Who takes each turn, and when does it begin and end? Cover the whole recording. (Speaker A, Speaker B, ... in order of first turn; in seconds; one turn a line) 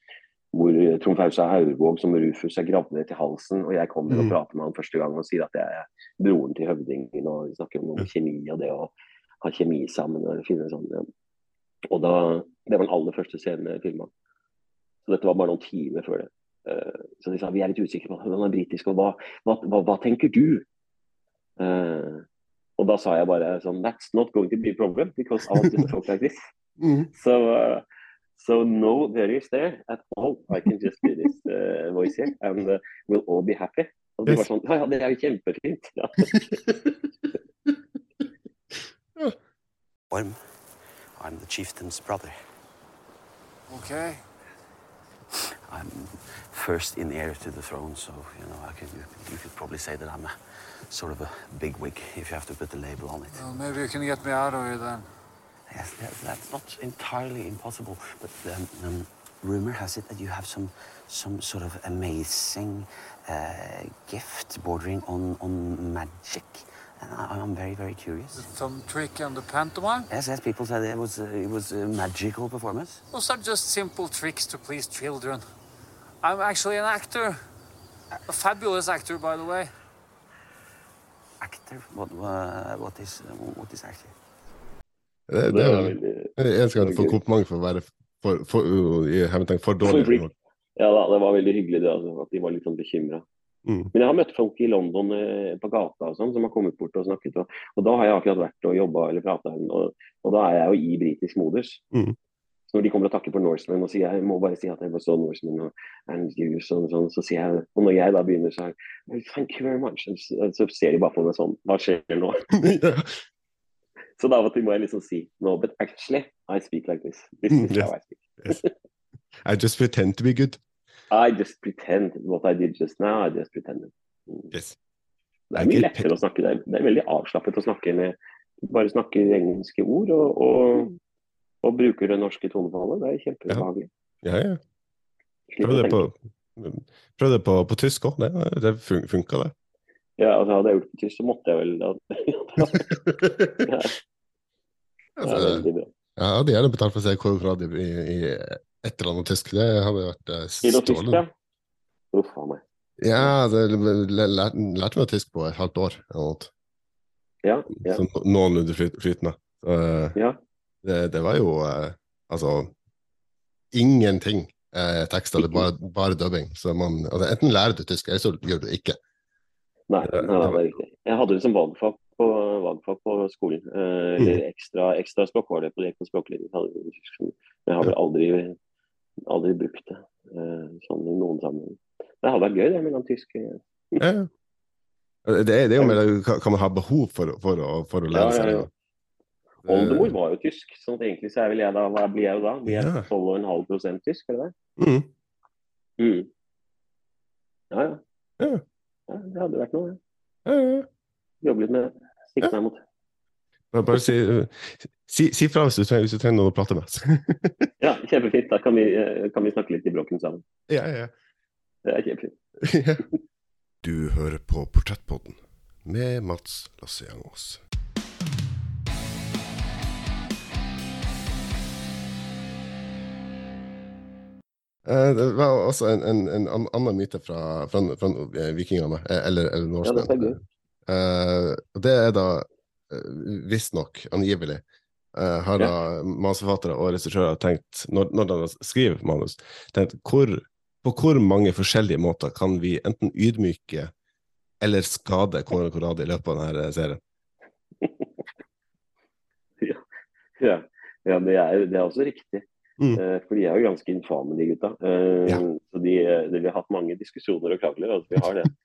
Speaker A: 0.5-11.1
Speaker B: 4.1-4.4
Speaker A: 11.9-14.1
Speaker A: 15.1-20.6
Speaker A: 21.6-22.2
Speaker A: 22.8-26.4
Speaker B: 26.8-27.1
Speaker A: 27.1-27.9
Speaker A: 28.4-36.7
Speaker C: 40.1-42.4
Speaker D: 43.7-44.2
Speaker C: 45.7-53.5
Speaker D: 53.3-55.1
Speaker C: 55.7-68.4
Speaker D: 68.3-70.1
Speaker C: 70.1-73.0
Speaker D: 73.1-75.5
Speaker D: 76.2-77.4
Speaker D: 78.3-79.7
Speaker C: 81.4-84.2
Speaker B: 85.3-90.3
Speaker A: 85.5-87.2
Speaker A: 89.8-93.2
Speaker B: 93.7-93.9
Speaker A: 93.9-101.8
Speaker A: 102.7-112.4
Speaker B: 112.6-113.2
Speaker A: 114.2-118.7
Speaker B: 117.5-117.9
Speaker B: 119.5-120.6
Speaker A: 121.1-124.5
Speaker A: 125.5-130.9
Speaker B: 125.6-126.1
Speaker A: 131.6-133.9
Speaker B: 134.2-134.6
Speaker A: 135.5-136.0
Speaker B: 135.6-139.5
Speaker A: 140.2-142.9
Speaker B: 143.1-143.6
Speaker A: 143.6-143.9
Speaker B: 145.2-145.6
Speaker A: 145.2-145.9
Speaker B: 146.2-151.2
Speaker A: 150.6-151.3
Speaker A: 152.1-152.6
Speaker B: 153.0-156.5
Speaker A: 157.4-158.0
Speaker B: 157.8-160.2
Speaker B: 160.8-162.7
Speaker B: 163.7-169.0
Speaker A: 165.4-165.6
Speaker A: 169.9-178.6
Speaker B: 170.1-170.6
Speaker A: 179.3-184.0
Speaker B: 184.0-184.3
Speaker B: 185.2-188.7
Speaker A: 188.1-188.7
Speaker B: 189.7-190.1
Speaker A: 189.7-194.5
Speaker B: 192.7-193.1
Speaker B: 194.8-195.1
Speaker A: 196.0-196.3
Speaker A: 197.7-198.0
Speaker A: 199.1-200.0
Speaker B: 200.5-200.9
Speaker A: 201.4-202.8
Speaker B: 203.7-207.7
Speaker A: 207.8-210.4
Speaker B: 210.7-211.1
Speaker A: 211.8-212.3
Speaker B: 212.6-213.0
Speaker E: 213.8-217.6
Speaker B: 224.8-230.3
Speaker A: 229.8-230.4
Speaker B: 230.9-234.6
Speaker B: 235.2-243.9
Speaker B: 244.6-247.0
Speaker A: 247.8-248.1
Speaker A: 250.4-258.5